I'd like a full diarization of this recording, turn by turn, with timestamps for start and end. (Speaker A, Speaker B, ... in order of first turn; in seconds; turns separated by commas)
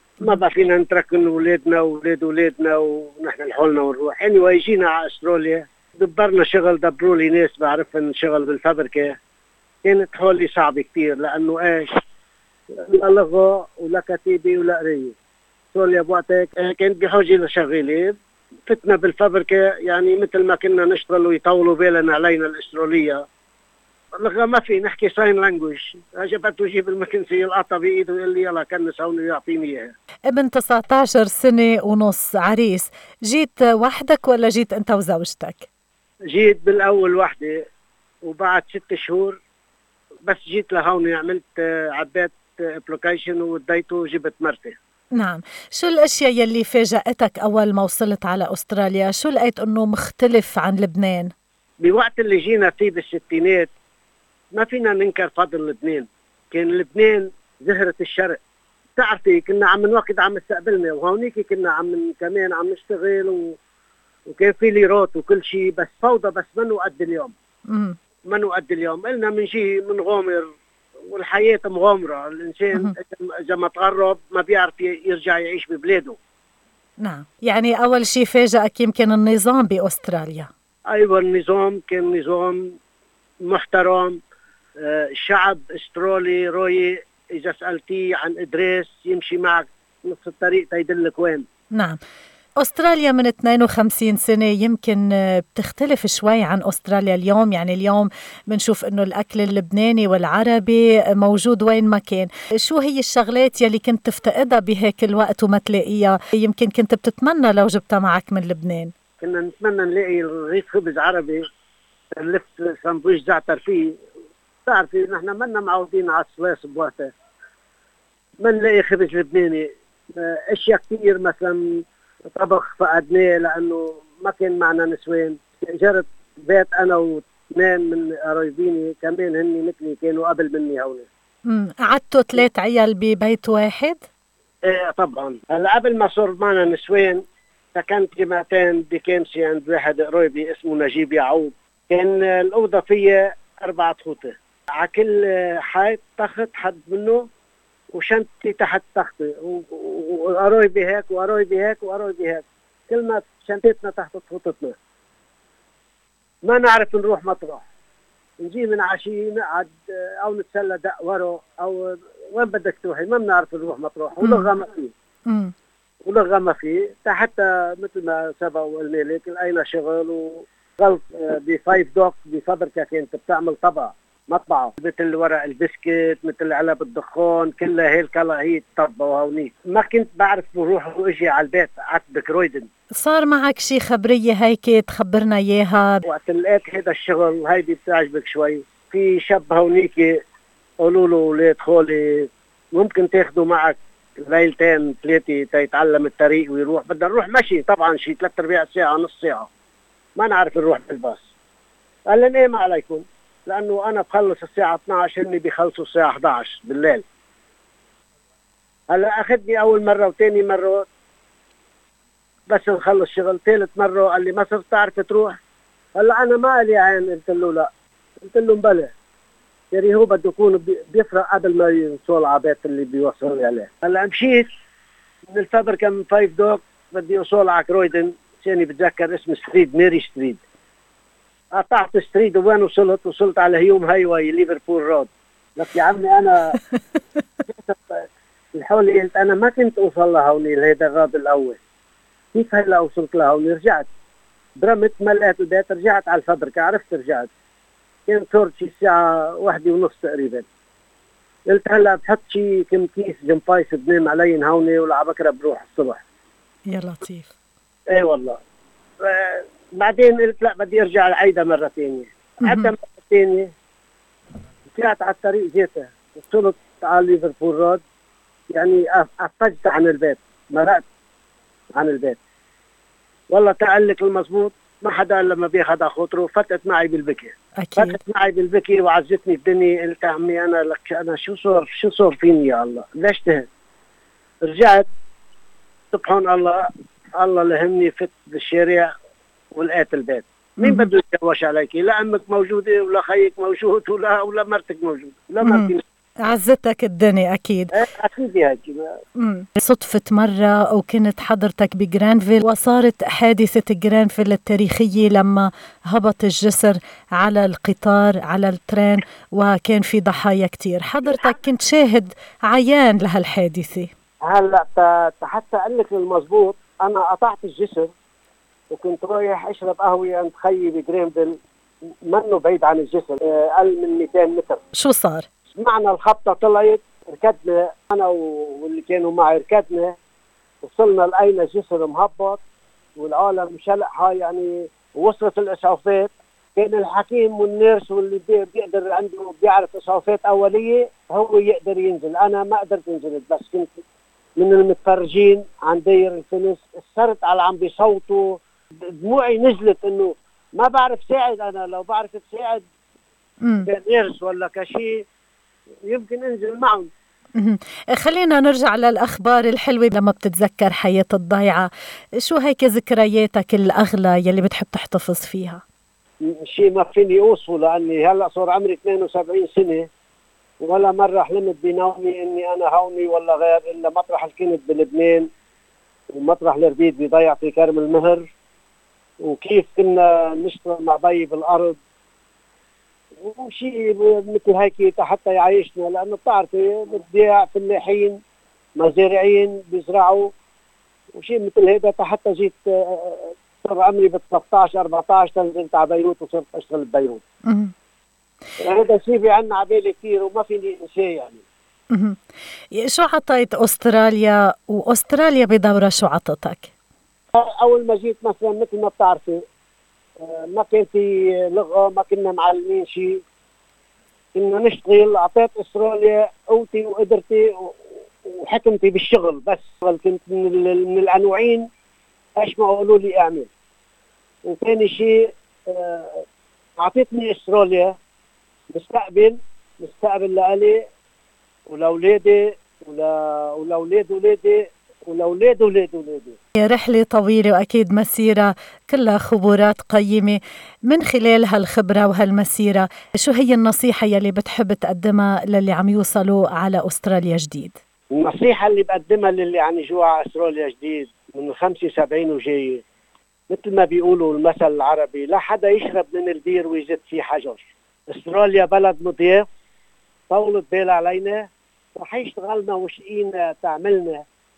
Speaker A: 0.2-9.1, Speaker A: 9.8-11.9, Speaker A: 12.8-15.1, Speaker A: 15.7-23.2, Speaker A: 24.2-29.9, Speaker B: 30.3-35.7, Speaker A: 36.3-37.6, Speaker A: 38.2-39.4, Speaker A: 40.3-44.7, Speaker B: 45.1-51.3, Speaker A: 51.8-53.7, Speaker A: 54.5-58.4, Speaker A: 59.0-63.5, Speaker A: 64.3-67.3, Speaker B: 67.7-68.0, Speaker A: 68.3-70.5, Speaker A: 71.1-76.2, Speaker B: 77.0-80.5, Speaker A: 80.9-82.8, Speaker A: 83.4-84.2, Speaker A: 84.8-91.5, Speaker B: 91.7-92.0, Speaker B: 92.6-108.9, Speaker A: 109.2-111.4, Speaker A: 112.2-114.0, Speaker A: 114.7-117.1, Speaker A: 118.4-131.1, Speaker B: 131.4-134.0, Speaker A: 134.6-137.2, Speaker A: 137.7-147.2, Speaker A: 147.9-154.7, Speaker A: 156.4-157.6, Speaker A: 158.4-164.9, Speaker B: 164.2-164.5, Speaker B: 165.3-165.5, Speaker A: 166.0-182.7, Speaker B: 182.9-186.0, Speaker A: 186.1-190.2, Speaker A: 190.8-199.5, Speaker A: 200.2-201.2, Speaker A: 202.1-207.0, Speaker A: 208.9-210.9, Speaker A: 212.5-215.3, Speaker A: 215.9-217.7, Speaker A: 218.2-218.9, Speaker A: 219.7-224.5, Speaker A: 225.3-230.4, Speaker A: 231.5-236.5, Speaker A: 237.5-241.6, Speaker A: 242.3-243.9, Speaker A: 244.6-247.3, Speaker A: 248.1-250.4, Speaker A: 251.5-256.0, Speaker B: 256.7-257.3, Speaker A: 257.9-258.4, Speaker A: 259.0-263.5, Speaker B: 262.4-262.7, Speaker A: 264.7-267.8, Speaker A: 268.5-270.8, Speaker A: 271.7-272.2, Speaker A: 273.3-283.4, Speaker B: 277.6-278.0, Speaker A: 284.4-284.9, Speaker A: 285.9-286.6, Speaker A: 287.2-288.9, Speaker A: 289.5-295.8, Speaker B: 290.6-290.9, Speaker B: 295.4-295.7, Speaker B: 296.2-297.7, Speaker A: 297.7-298.9, Speaker B: 299.1-313.9, Speaker A: 314.2-317.9, Speaker A: 318.7-321.4, Speaker A: 322.1-324.6, Speaker B: 324.7-325.3, Speaker A: 325.5-329.9, Speaker A: 330.6-332.4, Speaker A: 333.0-343.7, Speaker A: 344.4-348.4, Speaker A: 349.0-352.6, Speaker B: 353.4-353.7, Speaker A: 353.6-355.1, Speaker A: 355.9-356.9, Speaker B: 357.4-365.6, Speaker A: 366.2-369.9, Speaker A: 370.6-375.3, Speaker A: 376.1-378.3, Speaker A: 379.2-381.8, Speaker A: 383.2-388.2, Speaker A: 388.8-390.3, Speaker A: 391.1-397.2, Speaker B: 397.4-397.7, Speaker A: 398.6-401.4, Speaker B: 401.9-402.2, Speaker B: 402.7-406.7, Speaker A: 407.3-409.4, Speaker A: 410.2-413.2, Speaker A: 414.3-421.6, Speaker A: 422.4-423.5, Speaker A: 424.4-426.2, Speaker A: 426.8-427.9, Speaker A: 428.7-430.8, Speaker A: 431.7-436.4, Speaker B: 436.6-447.8, Speaker A: 448.1-452.8, Speaker A: 453.5-459.4, Speaker A: 460.3-464.2